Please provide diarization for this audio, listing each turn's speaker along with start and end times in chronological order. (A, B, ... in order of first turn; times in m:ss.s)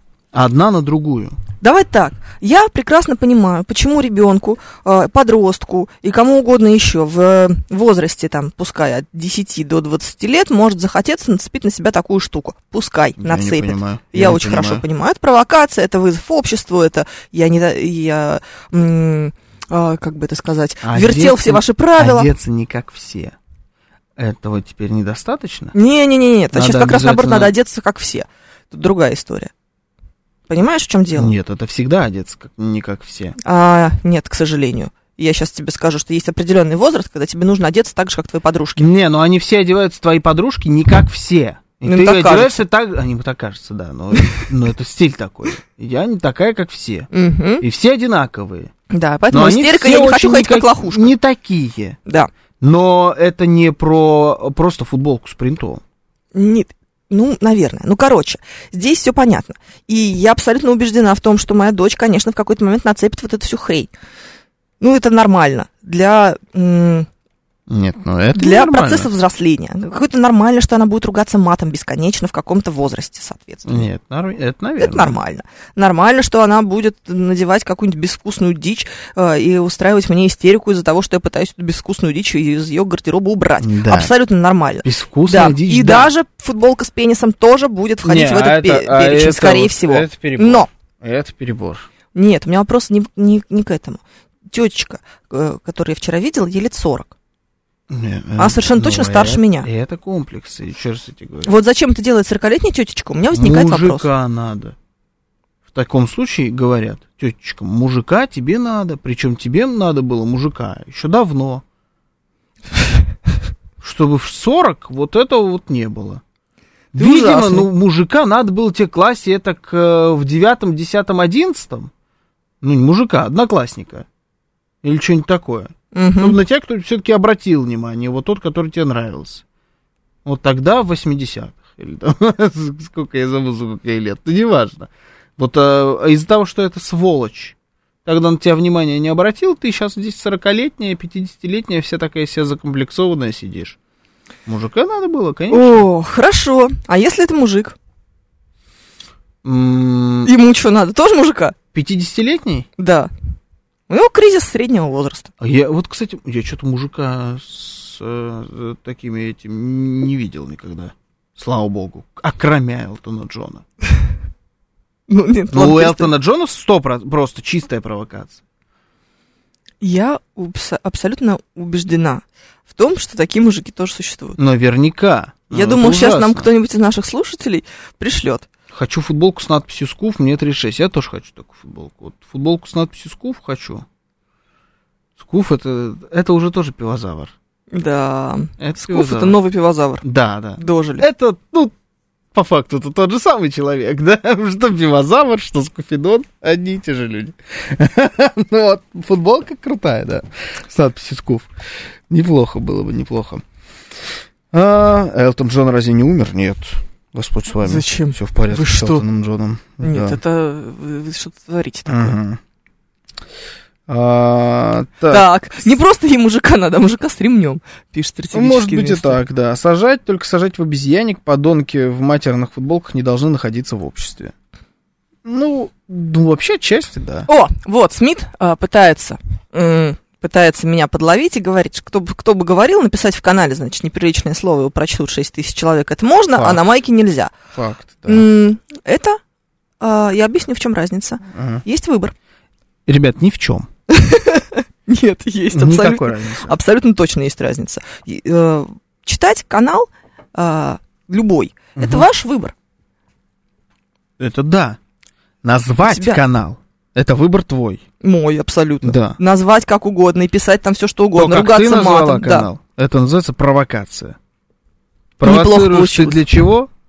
0:00.3-0:01.4 A
0:01.6-0:22.3 B
0:13.2-0:14.8 A
0:20.8-0:23.4 A
0:24.2-0:25.7 A
0:25.7-0:29.5 B
0:26.5-0:27.5 A
0:30.5-0:31.3 B
0:31.2-0:33.4 A
0:33.4-0:38.9 B
0:38.8-0:47.1 A
0:41.8-0:42.6 B
0:47.1-0:47.6 B
0:47.6-0:48.7 A
0:48.9-0:51.1 B
0:49.3-0:52.0 A
0:52.0-0:52.3 B
0:52.6-0:55.8 A
0:56.3-1:03.9 B
1:04.8-1:07.1 B
1:07.7-1:09.1 A
1:08.3-1:13.9 B
1:13.6-1:15.2 A
1:14.8-1:30.7 B
1:23.6-1:24.1 A
1:24.8-1:26.1 A
1:28.0-1:31.8 A
1:32.1-1:37.1 B
1:37.9-1:41.5 A
1:38.4-1:39.7 B
1:41.4-1:44.1 B
1:43.3-1:44.8 A
1:45.7-1:51.6 A
1:53.8-1:56.2 A
1:56.9-2:01.9 A
1:57.0-1:57.7 B
2:02.6-2:04.0 A
2:04.8-2:09.4 A
2:05.9-2:06.4 B
2:10.2-2:23.8 A
2:24.4-2:25.8 A
2:25.5-2:27.8 B
2:29.4-2:30.3 A
2:30.2-2:31.6 B
2:31.7-2:32.7 A
2:32.8-2:33.1 B
2:33.9-2:35.3 B
2:35.4-2:43.6 A
2:45.1-2:46.1 B
2:45.5-2:48.4 A
2:49.8-2:54.4 B
2:54.4-2:56.5 A
2:55.5-2:58.5 B
2:58.7-3:03.8 A
3:05.2-3:07.3 A
3:07.7-3:10.0 B
3:08.6-3:09.4 A
3:10.0-3:11.7 A
3:10.6-3:11.0 B
3:12.3-3:21.5 A
3:22.1-3:23.4 A
3:24.5-3:30.2 A
3:27.6-3:29.0 B
3:29.8-3:32.2 B
3:31.9-3:32.4 A
3:33.9-3:35.2 A
3:35.1-3:39.2 B
3:38.3-3:44.3 A
3:45.2-3:47.3 A
3:47.3-3:57.3 B
3:56.3-3:56.6 A
3:57.5-3:58.3 A
3:58.0-3:59.2 B
3:59.8-4:02.1 B
4:01.3-4:01.6 A
4:02.8-4:03.7 A
4:03.9-4:12.5 B
4:05.5-4:06.6 A
4:11.8-4:12.0 A
4:14.2-4:14.8 A
4:15.4-4:17.8 A
4:15.8-4:16.2 B
4:18.0-4:22.5 B
4:18.8-4:19.2 A
4:21.1-4:24.2 A
4:25.2-4:26.7 A
4:25.2-4:26.3 B